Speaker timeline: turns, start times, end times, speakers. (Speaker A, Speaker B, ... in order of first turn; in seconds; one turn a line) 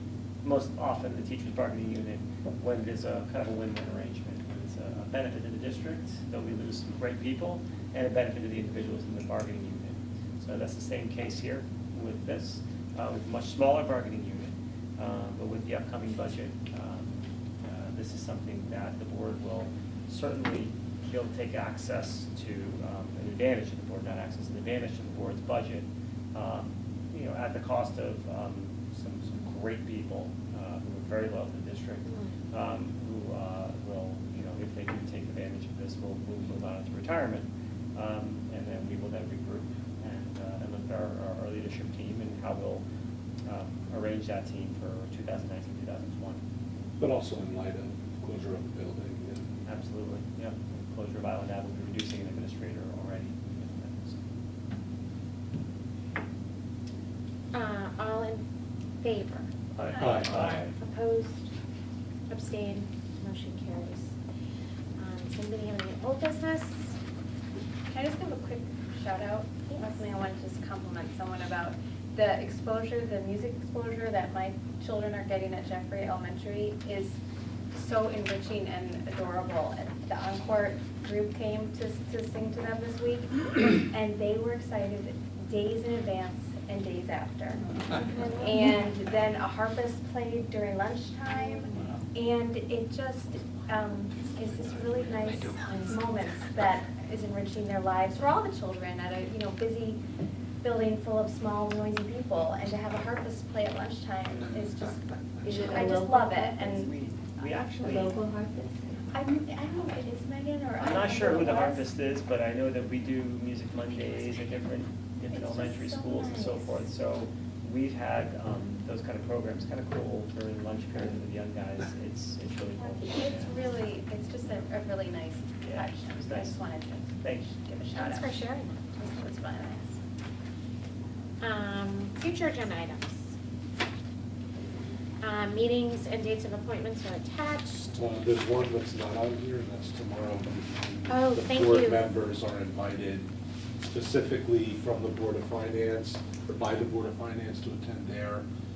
Speaker A: 0.4-42.9
Speaker B: 32.0-32.4
Speaker A: 43.5-46.4
Speaker C: 47.0-49.5
Speaker A: 49.6-54.2
Speaker B: 57.5-58.4
Speaker B: 59.0-61.5
Speaker A: 59.7-60.8
Speaker D: 59.9-60.5
Speaker C: 60.0-60.6
Speaker B: 62.3-64.2
Speaker B: 65.0-67.0
Speaker D: 67.9-77.2
Speaker B: 69.7-70.0
Speaker D: 77.7-87.7
Speaker B: 88.0-88.4
Speaker D: 88.3-100.0
Speaker A: 95.3-96.0
Speaker D: 100.6-106.9
Speaker A: 105.4-109.0
Speaker D: 109.1-111.9
Speaker A: 110.8-123.8
Speaker D: 115.3-116.9
Speaker D: 122.8-128.4
Speaker A: 125.6-126.6
Speaker A: 127.1-127.6
Speaker B: 128.0-128.8
Speaker D: 128.9-130.0
Speaker B: 131.4-133.3
Speaker B: 135.2-138.0
Speaker C: 138.0-143.3
Speaker B: 141.1-142.1
Speaker C: 143.8-148.4